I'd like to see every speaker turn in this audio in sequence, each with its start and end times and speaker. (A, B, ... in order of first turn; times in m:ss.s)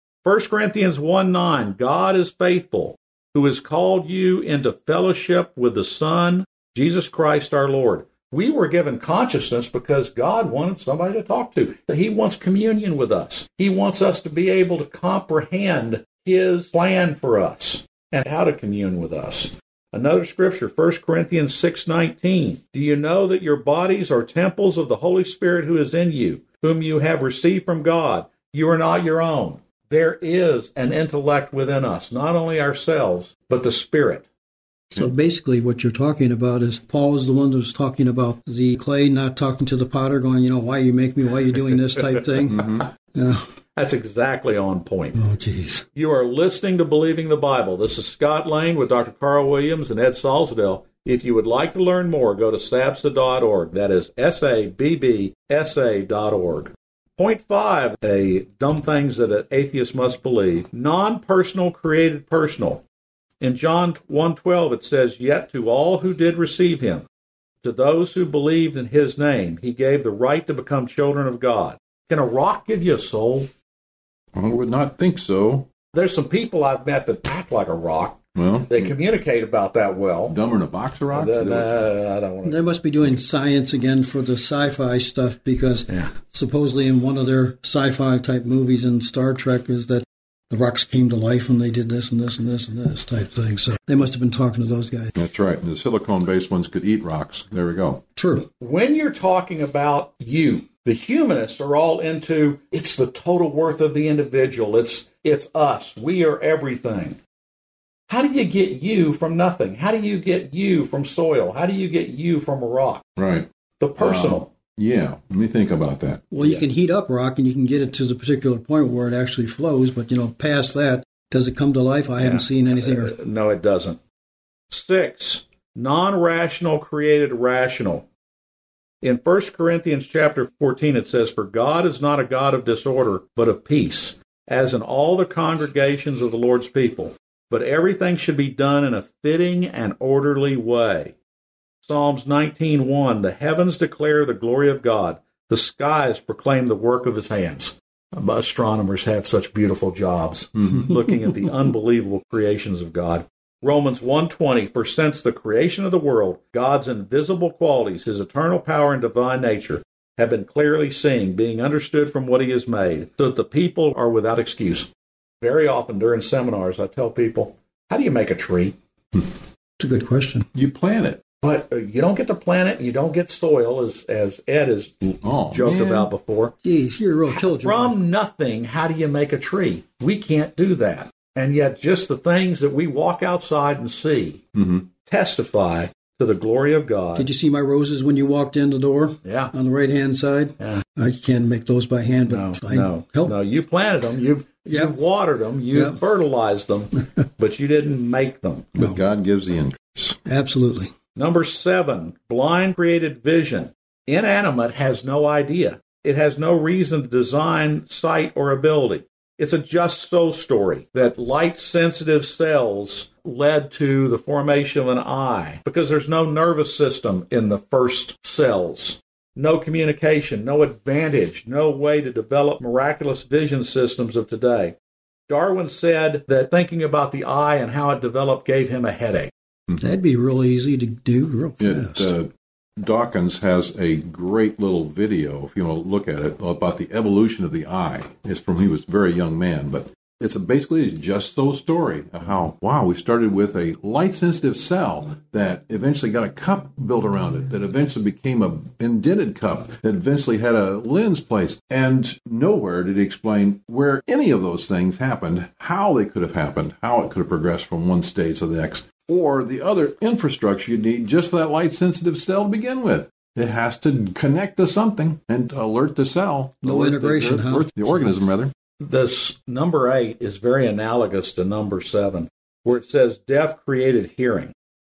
0:00.2-0:34.3 A
0:34.9-0:43.4 B
0:42.5-0:42.9 C
0:43.8-0:45.2 A
0:45.2-0:45.9 B
0:45.9-1:02.8 A
1:03.4-1:07.0 A
1:07.6-1:13.5 A
1:14.3-1:15.7 C
1:15.9-1:20.4 A
1:18.4-1:18.9 C
1:20.3-1:21.9 C
1:21.1-1:23.2 A
1:22.4-1:35.1 B
1:25.9-1:26.1 A
1:35.2-1:38.0 C
1:38.2-1:38.5 B
1:38.6-1:47.2 A
1:48.1-1:53.0 A
1:53.2-1:56.3 C
1:53.8-1:54.5 A
1:56.3-2:03.2 B
2:02.2-2:04.0 A
2:04.7-2:08.1 A
2:09.0-2:21.2 A
2:21.8-2:44.9 A
2:30.6-2:31.0 C
2:45.4-2:48.8 A
2:49.8-2:50.5 B
2:50.5-2:51.2 C
2:51.4-2:56.6 A
2:55.2-2:56.1 C
2:56.6-2:58.0 B
2:57.3-3:04.4 A
3:04.6-3:04.9 C
3:05.0-3:07.3 A
3:07.2-3:13.4 B
3:09.2-3:09.5 A
3:12.2-3:18.7 A
3:14.7-3:15.0 B
3:15.7-3:16.0 B
3:18.8-3:20.2 C
3:20.2-3:20.9 B
3:21.2-3:44.8 A
3:45.3-3:49.3 A
3:49.8-3:52.1 B
3:51.6-4:28.5 C
4:26.6-4:28.4 B
4:28.8-4:34.5 A